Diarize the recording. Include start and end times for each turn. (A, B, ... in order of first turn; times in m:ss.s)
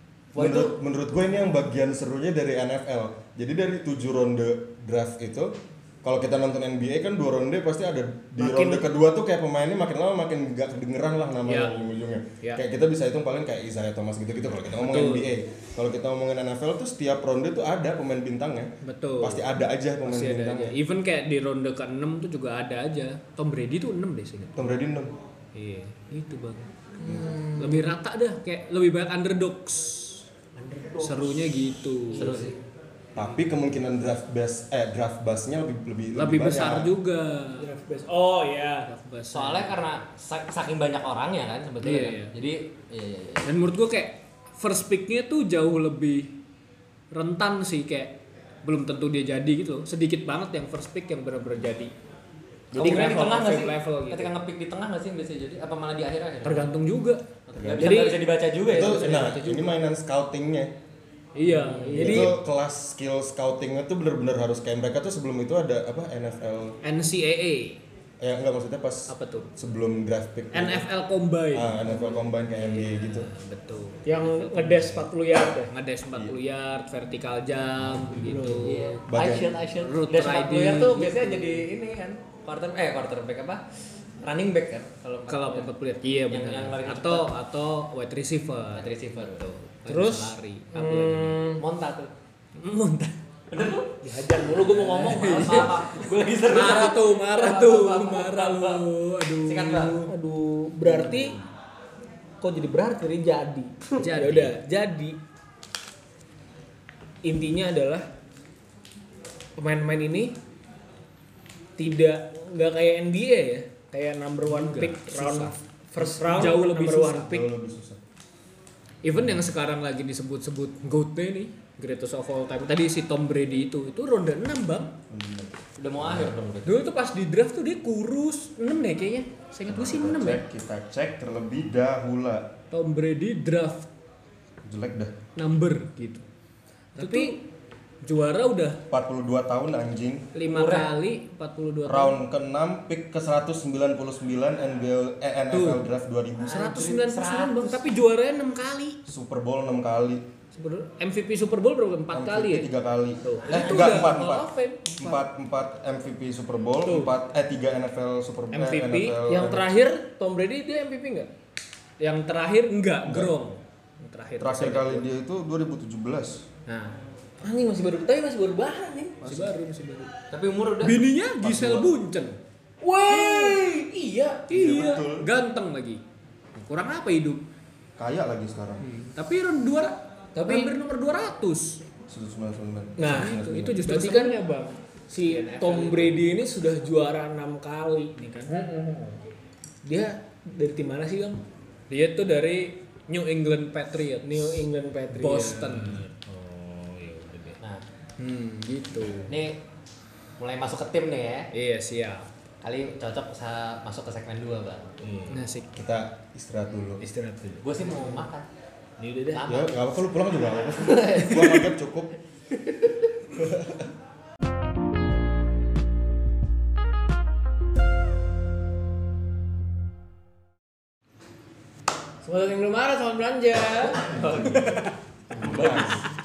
0:00.3-0:20.8 A
0:08.4-0:08.9 B
0:11.5-0:11.8 C
0:14.8-0:15.3 C
0:18.8-0:24.7 C
0:24.6-0:25.1 A
0:25.5-0:26.7 C
0:27.0-0:27.9 B
0:27.0-0:27.4 A
0:27.4-0:30.2 C
0:30.6-0:31.5 B
0:31.0-0:32.4 C
0:32.1-0:32.6 D
0:33.1-0:36.9 A
0:36.2-0:37.7 C
0:37.6-0:38.9 B
0:38.8-0:39.8 C
0:39.3-0:43.5 D
0:41.8-0:42.3 C
0:43.4-0:46.3 C
0:47.1-0:51.9 C
0:52.7-0:53.1 A
0:52.7-0:54.3 C
0:52.8-0:56.7 D
0:56.4-0:57.2 C
0:57.5-0:59.3 D
0:57.6-0:58.1 A
0:57.8-0:59.7 C
0:57.8-0:58.3 B
0:58.6-1:00.7 A
1:01.3-1:02.3 C
1:01.4-1:02.3 B
1:01.9-1:06.8 A
1:06.8-1:07.8 C
1:08.2-1:10.9 A
1:09.1-1:09.5 C
1:10.5-1:15.1 C
1:11.5-1:13.3 A
1:14.0-1:15.7 B
1:15.7-1:19.0 C
1:18.1-1:18.9 B
1:18.6-1:23.6 D
1:19.1-1:19.6 A
1:19.8-1:21.6 C
1:24.2-1:25.7 D
1:25.3-1:28.9 C
1:26.3-1:27.3 D
1:28.7-1:30.0 D
1:29.8-1:31.4 C
1:29.8-1:31.6 B
1:31.6-1:32.1 D
1:32.6-1:33.2 C
1:33.5-1:34.0 D
1:34.0-1:35.8 B
1:34.5-1:40.1 C
1:35.3-1:40.0 D
1:40.1-1:41.4 B
1:40.8-1:41.3 C
1:42.4-1:45.2 B
1:44.0-1:44.6 C
1:47.2-1:48.1 B
1:49.6-1:50.4 B
1:51.8-1:57.4 B
1:54.4-1:57.4 C
1:57.2-1:58.0 A
1:59.0-2:04.9 C
2:05.1-2:06.4 A
2:05.8-2:06.8 D
2:06.6-2:10.4 C
2:09.7-2:12.5 A
2:12.7-2:13.9 C
2:14.6-2:15.1 A
2:15.4-2:16.2 C
2:17.0-2:17.4 B
2:17.0-2:17.4 C
2:18.0-2:18.8 C
2:18.9-2:20.3 A
2:20.3-2:22.2 C
2:20.5-2:20.9 D
2:21.8-2:26.7 A
2:25.5-2:25.8 C
2:26.4-2:27.8 D
2:26.4-2:29.0 C
2:29.1-2:30.2 A
2:30.6-2:32.7 C
2:32.1-2:39.7 A
2:33.2-2:35.2 C
2:33.4-2:34.2 B
2:36.8-2:37.1 B
2:38.5-2:39.2 C
2:39.2-2:41.3 B
2:42.0-2:45.0 C
2:43.0-2:43.3 A
2:44.4-2:46.5 A
2:46.7-2:47.0 C
2:47.4-2:49.2 B
2:49.2-2:49.5 A
2:49.2-2:50.1 C
2:50.3-2:51.0 D
2:50.8-2:52.4 C
2:51.4-2:51.9 A
2:52.8-2:54.5 B
2:53.1-2:53.6 C
2:54.5-2:56.0 C
2:54.5-2:55.3 A
2:56.6-2:57.4 C
2:58.0-2:58.8 A
2:58.8-3:01.8 C
3:00.4-3:00.7 B
3:02.1-3:03.8 A
3:03.0-3:08.5 B
3:03.0-3:04.4 C
3:05.3-3:06.2 C
3:08.5-3:09.2 C
3:09.8-3:11.4 B
3:11.9-3:16.1 C
3:14.2-3:17.6 B
3:18.2-3:19.3 C
3:19.3-3:19.6 D
3:20.4-3:21.5 D
3:21.5-3:22.3 C
3:22.6-3:25.0 D
3:25.0-3:25.4 B
3:25.3-3:25.7 C
3:25.7-3:27.0 A
3:27.0-3:28.3 B
3:27.6-3:28.5 D
3:29.0-3:29.4 B
3:29.3-3:29.7 D
3:29.4-3:32.1 A
3:30.8-3:31.5 D
3:33.3-3:33.9 A
3:42.2-3:44.8 B
3:44.1-3:44.8 D
3:44.2-3:44.6 A
3:45.3-3:45.9 B
3:45.4-3:46.0 A
3:45.4-3:46.0 D